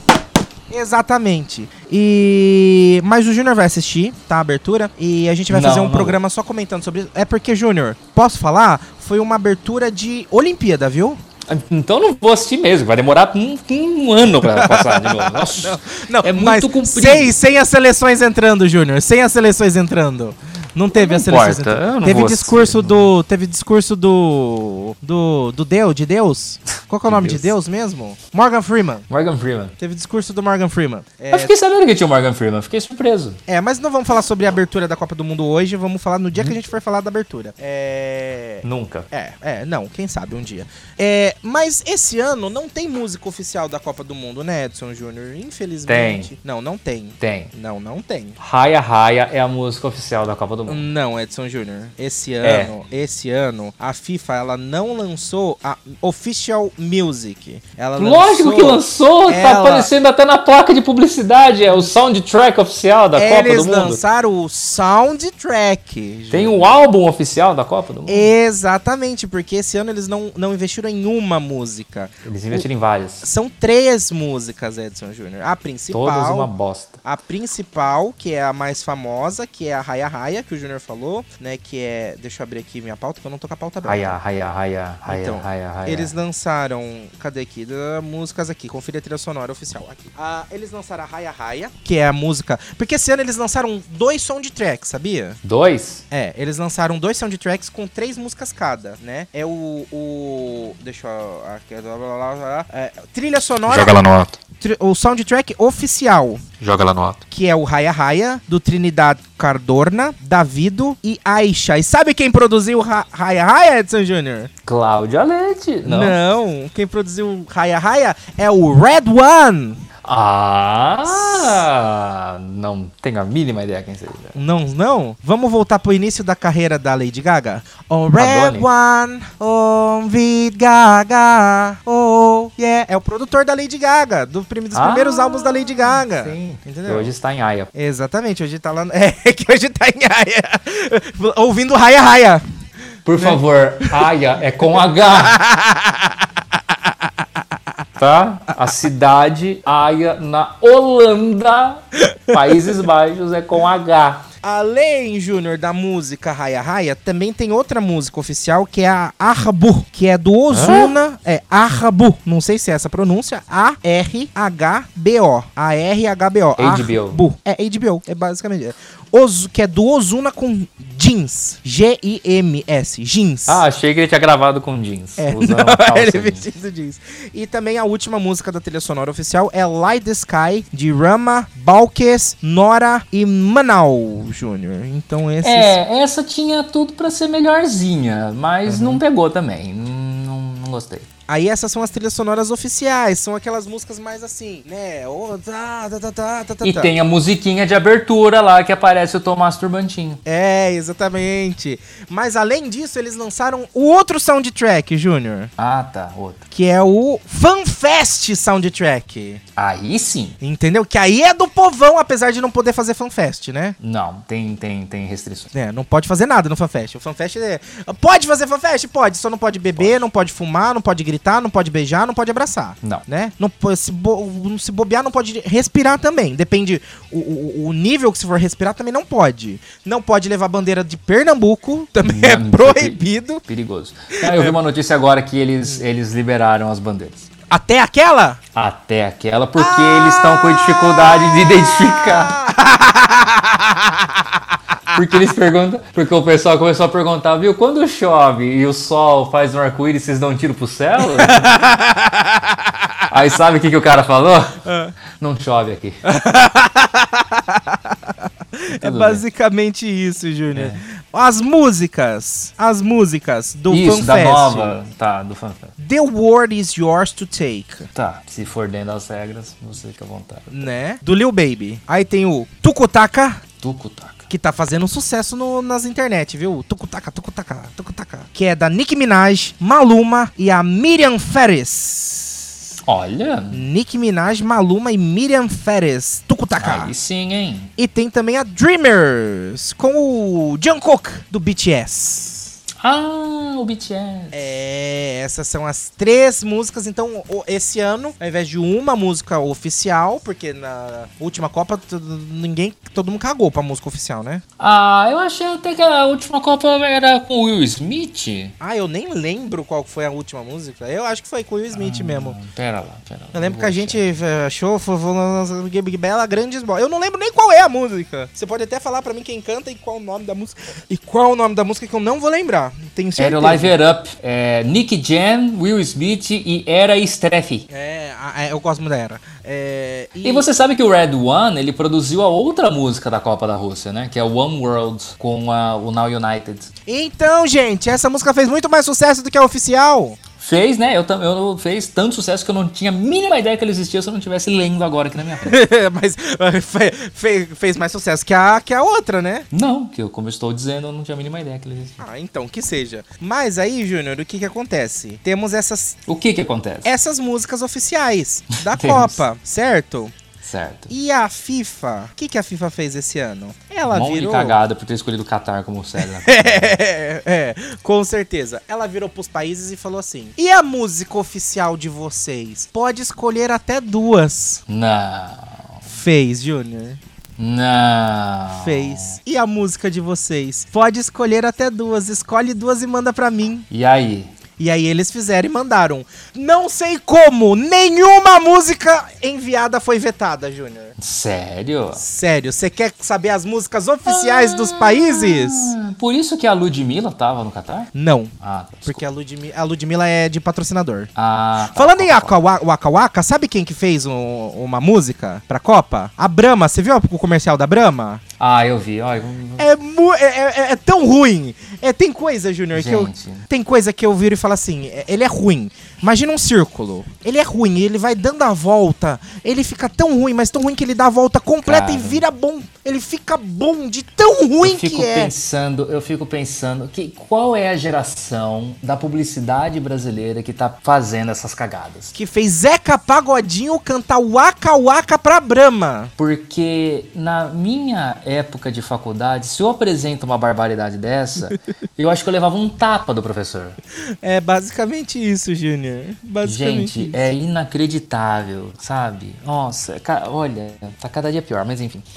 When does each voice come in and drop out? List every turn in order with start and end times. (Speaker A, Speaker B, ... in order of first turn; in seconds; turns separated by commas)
Speaker A: 0.7-11.2, Speaker B: 5.5-6.2, Speaker B: 11.5-17.4, Speaker A: 14.4-29.1, Speaker B: 20.9-23.1, Speaker B: 27.1-27.5, Speaker B: 29.1-29.8, Speaker A: 29.8-31.5, Speaker B: 31.3-33.4, Speaker A: 33.5-48.4, Speaker B: 38.6-39.1, Speaker B: 45.9-46.3, Speaker B: 47.2-47.5, Speaker B: 48.4-50.9, Speaker A: 50.7-59.9, Speaker B: 52.4-52.7, Speaker B: 58.0-64.0, Speaker A: 63.1-66.7, Speaker B: 66.3-68.3, Speaker A: 68.1-72.7, Speaker B: 72.2-73.3, Speaker A: 73.2-76.5, Speaker B: 75.9-77.0, Speaker A: 77.0-84.2, Speaker B: 83.8-86.1, Speaker A: 85.1-95.4, Speaker B: 95.4-96.0, Speaker A: 96.1-104.0, Speaker B: 103.6-104.4, Speaker A: 104.6-106.5, Speaker B: 106.6-107.2, Speaker A: 107.3-114.5, Speaker B: 114.7-116.2, Speaker A: 115.8-119.8, Speaker B: 120.0-124.4, Speaker A: 124.3-137.1, Speaker B: 128.2-128.7, Speaker B: 134.7-137.7, Speaker A: 137.7-142.4, Speaker B: 143.1-145.4, Speaker A: 143.2-144.1, Speaker A: 145.0-146.3, Speaker B: 148.0-154.3, Speaker A: 152.1-152.4, Speaker A: 154.4-173.6, Speaker B: 160.5-160.9, Speaker B: 166.6-167.2, Speaker B: 173.5-176.4, Speaker A: 175.2-185.8, Speaker B: 185.4-191.1, Speaker A: 188.7-189.0, Speaker A: 191.3-196.9, Speaker B: 196.6-200.2, Speaker A: 200.2-205.5, Speaker B: 205.6-206.4, Speaker A: 206.5-209.4, Speaker B: 209.6-210.4, Speaker A: 210.4-213.8, Speaker B: 213.8-215.5, Speaker A: 215.5-233.4, Speaker B: 219.8-220.0, Speaker B: 232.1-237.3, Speaker A: 234.2-234.6, Speaker A: 237.5-238.4, Speaker B: 238.6-242.4, Speaker A: 239.6-244.2, Speaker B: 244.9-251.6, Speaker A: 251.0-252.6, Speaker B: 253.1-254.6, Speaker A: 254.7-254.9, Speaker B: 255.2-256.0, Speaker A: 256.1-264.8, Speaker B: 258.8-259.2, Speaker B: 260.5-260.8, Speaker B: 263.7-265.7, Speaker A: 265.8-267.9, Speaker B: 267.9-270.7, Speaker A: 270.5-273.4, Speaker B: 273.6-274.3, Speaker A: 274.3-282.4, Speaker B: 282.9-283.6, Speaker A: 283.5-286.9, Speaker B: 286.6-287.7, Speaker A: 287.8-292.6, Speaker B: 292.8-294.4, Speaker A: 294.3-304.4, Speaker B: 304.6-308.5, Speaker A: 308.6-312.4, Speaker B: 311.7-314.1, Speaker A: 313.3-323.7, Speaker B: 323.2-327.7, Speaker A: 327.7-330.5, Speaker B: 330.2-336.7, Speaker A: 336.9-340.2, Speaker B: 340.4-345.6, Speaker A: 345.4-349.5, Speaker B: 349.5-352.0, Speaker A: 352.0-356.0, Speaker B: 356.1-356.9, Speaker A: 356.8-360.1, Speaker B: 358.7-359.2, Speaker B: 360.4-360.9, Speaker A: 360.9-364.6, Speaker B: 363.9-366.8, Speaker A: 366.2-374.6, Speaker B: 374.7-375.8, Speaker A: 375.9-377.0, Speaker B: 377.4-379.2, Speaker A: 378.6-383.7, Speaker B: 383.7-384.3, Speaker A: 384.6-391.0, Speaker B: 391.0-392.0, Speaker A: 391.9-395.8, Speaker B: 394.1-399.0, Speaker A: 397.9-398.3, Speaker A: 398.9-401.1, Speaker B: 401.1-402.4, Speaker A: 401.7-408.2, Speaker B: 408.4-409.7, Speaker A: 409.6-425.3, Speaker B: 412.7-413.4, Speaker B: 421.6-422.2, Speaker B: 424.6-432.1, Speaker A: 432.1-436.1, Speaker B: 436.2-443.8, Speaker A: 444.2-447.2, Speaker B: 446.4-452.1